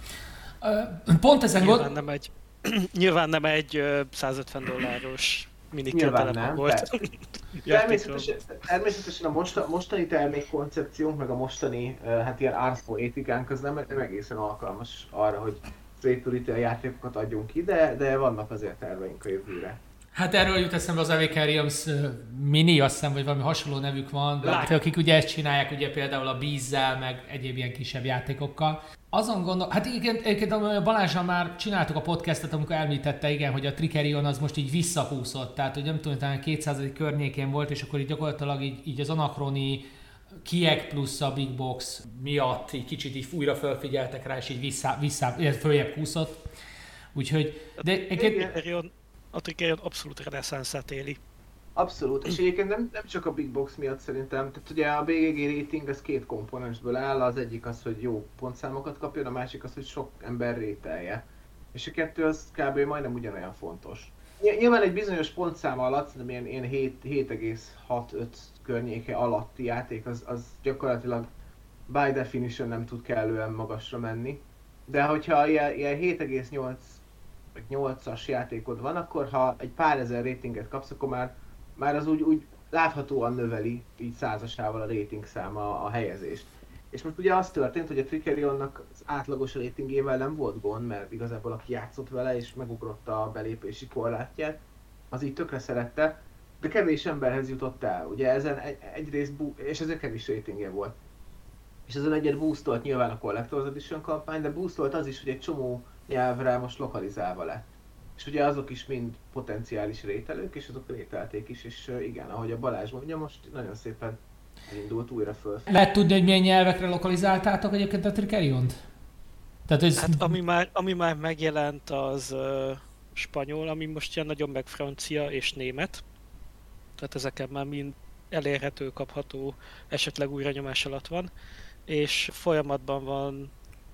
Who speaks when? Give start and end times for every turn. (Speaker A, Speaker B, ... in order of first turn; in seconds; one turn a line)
Speaker A: 0.6-1.9
Speaker B: 1.6-8.3
Speaker C: 5.9-6.9
Speaker C: 7.7-19.8
Speaker A: 20.2-39.9
Speaker C: 24.4-24.7
Speaker B: 24.5-24.8
Speaker A: 40.5-46.4
Speaker A: 47.1-48.5
Speaker B: 47.8-51.2
Speaker C: 48.2-48.6
Speaker C: 51.8-71.3
Speaker C: 71.9-77.0
Speaker C: 77.5-101.0
Speaker C: 101.9-107.7
Speaker C: 108.2-115.7
Speaker A: 115.7-118.8
Speaker A: 119.7-120.4
Speaker B: 120.0-126.0
Speaker B: 127.0-131.3
Speaker B: 131.9-133.5